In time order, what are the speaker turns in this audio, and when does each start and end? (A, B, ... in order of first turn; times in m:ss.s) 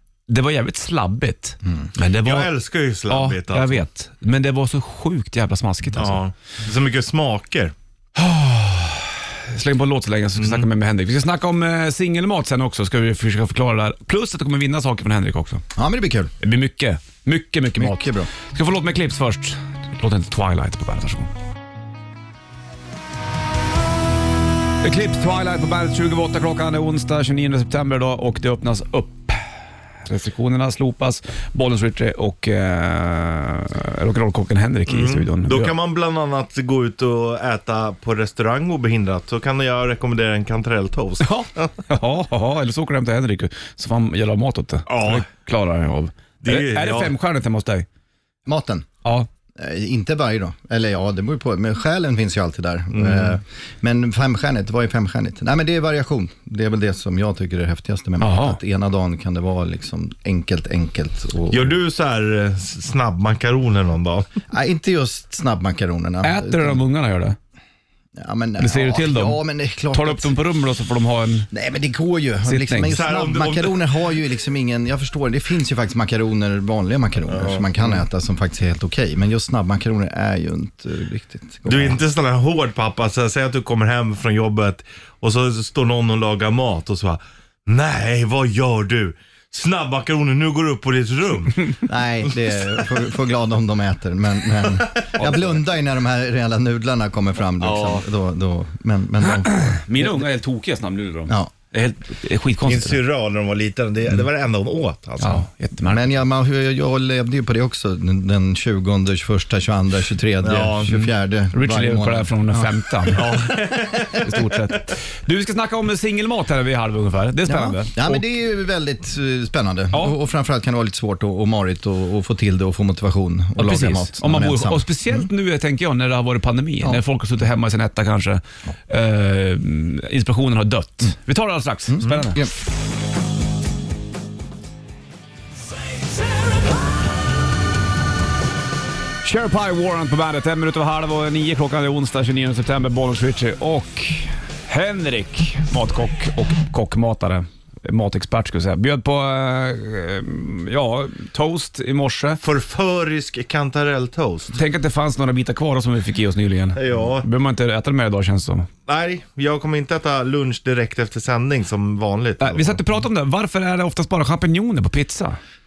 0:00.3-0:02.5 A
0:02.2-0:03.8 B
0:03.1-0:06.2 A
0:06.0-0:07.7 B
0:08.2-0:15.6 A
0:10.4-0:10.7 B
0:15.8-0:16.3 C
0:16.4-0:21.3 A
0:17.8-0:18.3 C
0:24.8-0:29.4 A
0:30.0-0:35.8 A
0:34.9-0:41.7 B
0:41.2-0:47.9 A
0:44.9-0:45.3 B
0:46.4-0:47.1 B
0:48.5-0:48.9 C
0:49.6-1:01.8 C
0:52.9-0:53.4 B
0:58.2-0:58.6 A
1:01.5-1:04.3 B
1:04.5-1:06.8 C
1:06.2-1:07.4 A
1:08.2-1:10.3 C
1:08.6-1:09.4 A
1:09.9-1:11.5 A
1:11.5-1:22.0 C
1:12.4-1:12.9 A
1:12.9-1:13.9 B
1:17.3-1:17.7 B
1:21.7-1:31.8 B
1:31.8-1:40.1 C
1:35.2-1:35.5 A
1:37.6-1:38.0 B
1:39.5-1:43.0 A
1:42.6-1:45.4 B
1:45.2-1:46.0 A
1:45.8-1:53.3 C
1:50.4-1:50.9 B
1:50.9-1:53.3 A
1:53.1-1:54.3 B
1:54.2-1:58.2 A
1:57.4-2:05.3 C
2:03.6-2:12.4 A
2:11.9-2:12.5 C
2:19.2-2:32.4 A
2:32.4-2:34.6 B
2:34.5-2:38.7 A
2:36.8-2:37.3 B
2:38.9-2:42.8 B
2:42.4-2:45.4 A